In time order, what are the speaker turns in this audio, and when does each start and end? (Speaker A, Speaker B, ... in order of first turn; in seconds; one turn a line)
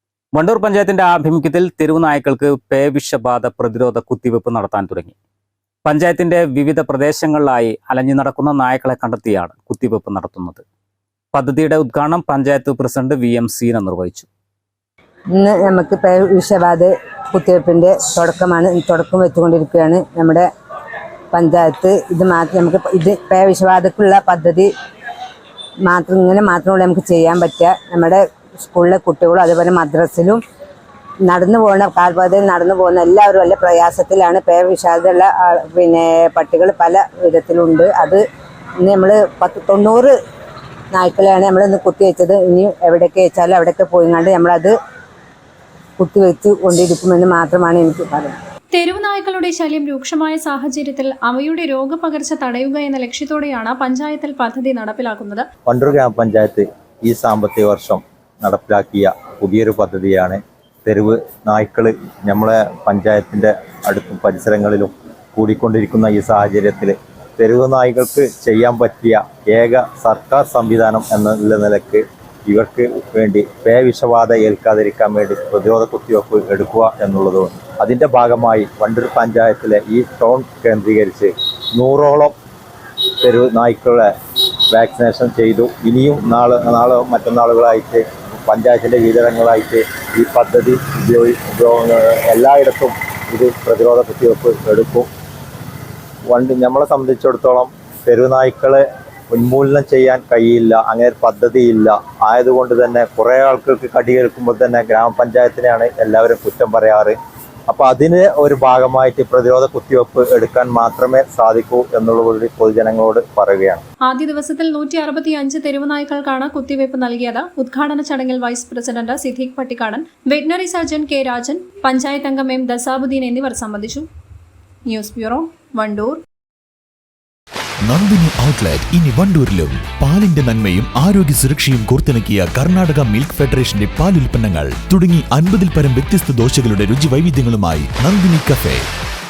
Speaker A: 0.3-5.1
Speaker A: 5.8-10.6
Speaker A: 11.3-14.3
Speaker B: 15.3-20.5
Speaker B: 21.3-24.7
Speaker B: 25.9-30.4
Speaker B: 31.2-38.2
Speaker B: 38.8-40.1
Speaker B: 40.9-44.7
Speaker B: 46.0-48.4
Speaker C: 48.7-55.5
Speaker D: 55.7-82.3
Speaker D: 83.2-84.1
Speaker D: 84.7-95.1
Speaker D: 96.3-107.2
Speaker D: 107.7-113.8
Speaker C: 114.1-124.0
Speaker C: 124.9-126.2
Speaker E: 127.9-138.8